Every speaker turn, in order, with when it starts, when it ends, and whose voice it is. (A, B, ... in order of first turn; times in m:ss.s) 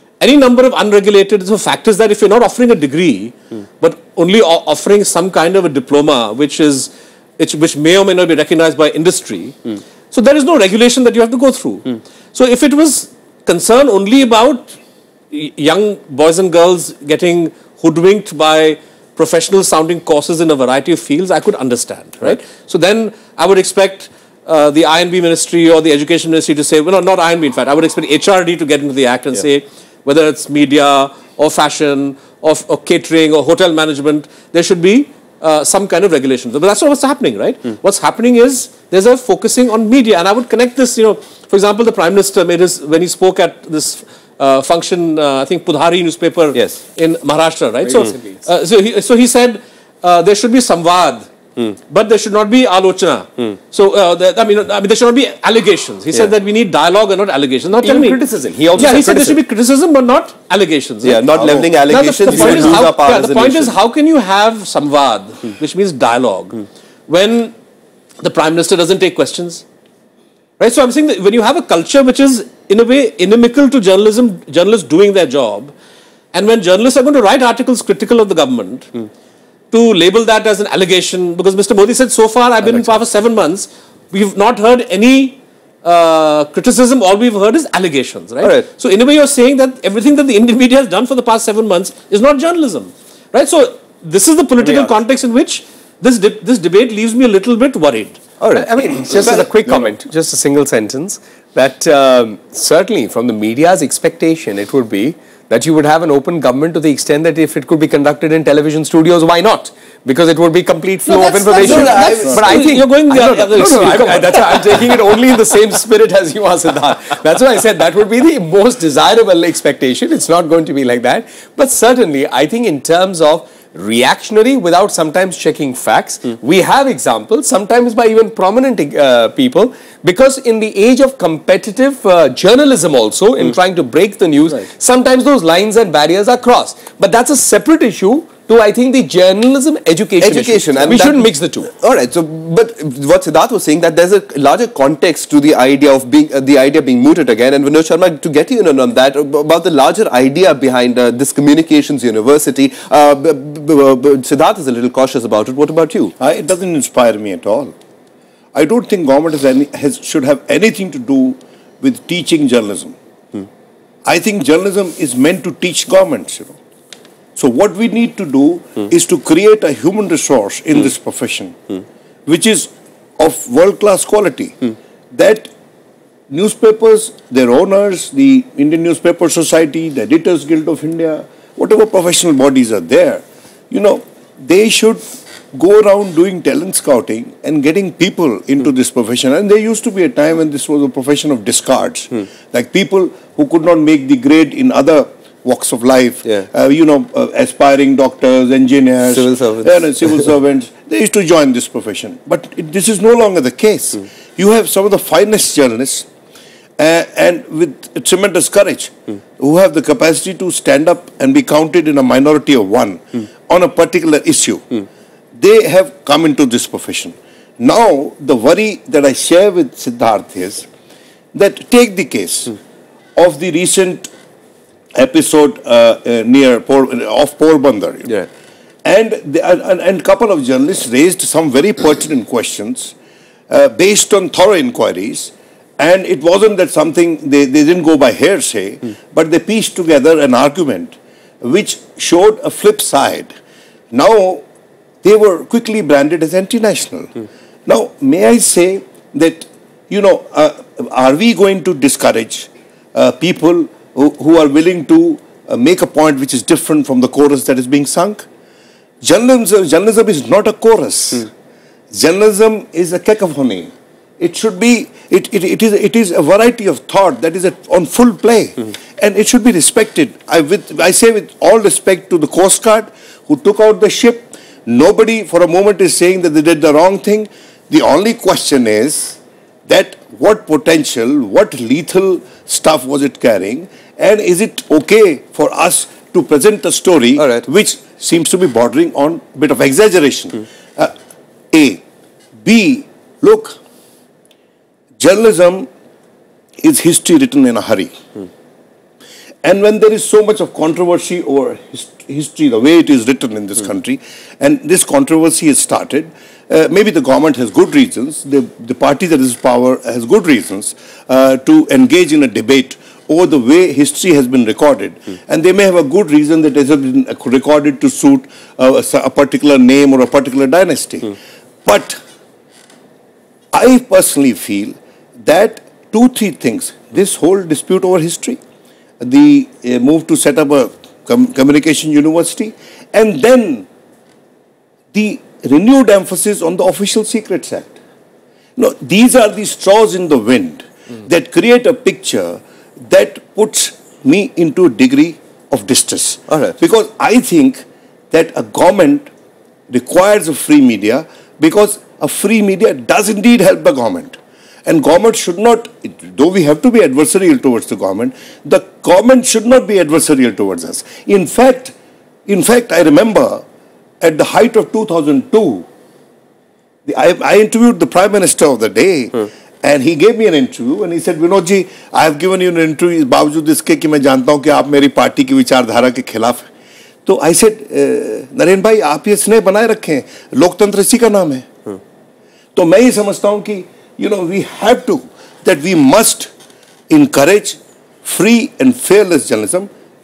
0:00.2-0:09.6 A
0:10.1-0:14.8 A
0:15.3-0:51.3 A
0:46.5-0:46.8 B
0:47.8-0:48.4 C
0:51.9-0:58.2 A
0:57.8-0:59.4 C
0:58.8-1:07.5 A
1:01.0-1:03.8 B
1:01.4-1:01.7 D
1:02.3-1:02.7 C
1:08.2-1:09.6 A
1:10.6-1:15.7 A
1:16.3-1:18.9 A
1:19.7-1:38.2 A
1:22.6-1:22.9 B
1:28.4-1:28.7 B
1:34.6-1:34.9 B
1:38.4-1:39.5 B
1:38.5-2:21.7 C
1:51.1-1:54.9 A
1:51.6-1:52.4 B
1:51.7-1:52.4 D
2:20.2-2:36.1 B
2:36.2-2:37.7 D
2:38.5-2:43.0 D
2:44.0-2:46.6 D
2:47.4-2:51.6 D
2:52.3-2:54.6 D
2:55.1-2:55.5 D
2:56.3-3:26.1 D
3:19.1-3:20.2 B
3:26.8-3:34.8 D
3:35.4-3:40.7 D
3:41.3-3:42.6 D
3:43.2-3:44.1 D
3:45.0-3:48.2 D
3:48.8-3:52.9 D
3:53.5-4:03.3 D
4:03.9-4:04.4 D
4:05.0-4:18.2 D
4:19.0-4:21.3 D
4:21.9-4:50.9 D
4:47.2-4:47.4 B
4:51.5-4:51.8 D
4:52.4-4:53.6 D
4:55.0-4:55.7 D
4:56.6-4:58.0 D
4:59.4-5:22.0 D
5:23.5-5:28.4 D
5:29.0-5:33.7 D
5:34.9-5:37.8 D
5:38.6-5:49.1 D
5:46.3-5:46.6 B
5:49.7-6:01.7 D
6:02.3-6:03.4 D
6:04.0-6:05.7 D
6:06.9-6:16.5 D
6:17.1-6:21.5 D
6:22.6-6:26.3 D
6:26.9-6:29.7 D